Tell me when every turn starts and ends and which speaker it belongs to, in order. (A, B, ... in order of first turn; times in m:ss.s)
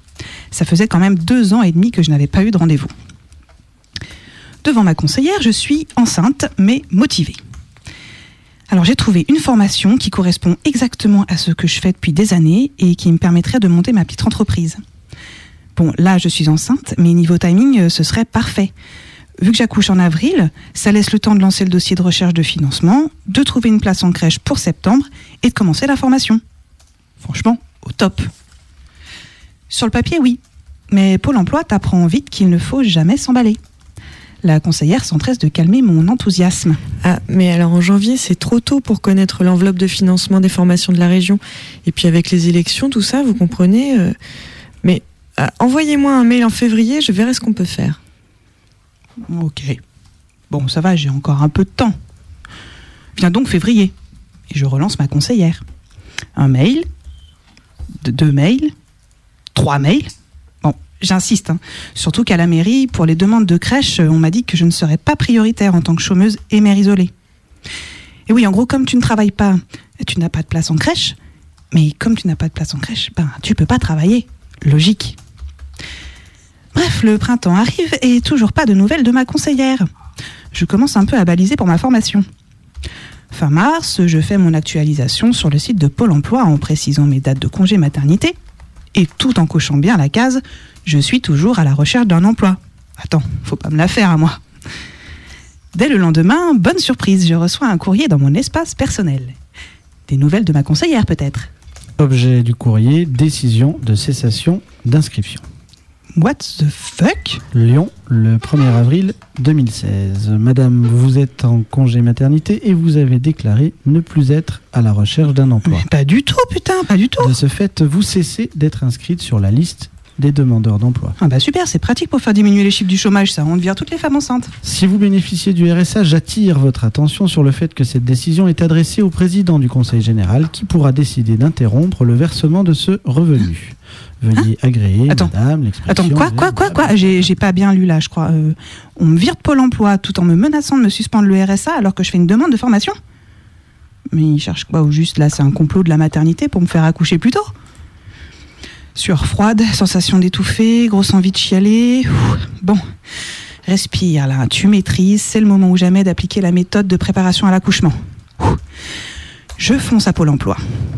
0:00.5-0:02.9 A
0:04.6-0:07.4 A
0:08.7-0:14.8 A
0:15.8-0:18.7 A
0:19.4-0:26.4 A
0:27.2-0:28.3 A
0:29.7-0:30.4 A
0:30.9-0:33.6 A
0:34.4-0:36.8 A
0:37.0-0:44.2 B
0:44.8-0:48.0 B
0:49.3-0:49.8 A
0:50.5-0:52.0 A
0:53.2-0:53.9 A
0:54.5-0:55.6 A
0:56.4-0:56.9 A
0:58.0-0:58.7 A
0:59.6-1:00.1 A
1:00.6-1:07.1 A
1:08.3-1:11.1 A
1:11.7-1:15.2 A
1:16.7-1:19.9 A
1:20.5-1:22.2 A
1:23.3-1:28.4 A
1:29.0-1:34.4 A
1:35.7-1:39.4 A
1:40.1-1:41.5 A
1:42.0-1:45.4 C
1:46.2-1:47.4 A
1:47.5-1:55.8 C
1:55.7-1:57.3 A
1:57.2-2:01.2 C
2:01.2-2:04.6 A
2:04.6-2:17.3 C
2:15.9-2:23.0 A
2:24.1-2:27.5 A
2:29.0-2:32.8 A
2:33.7-2:38.6 A
2:39.6-2:40.6 A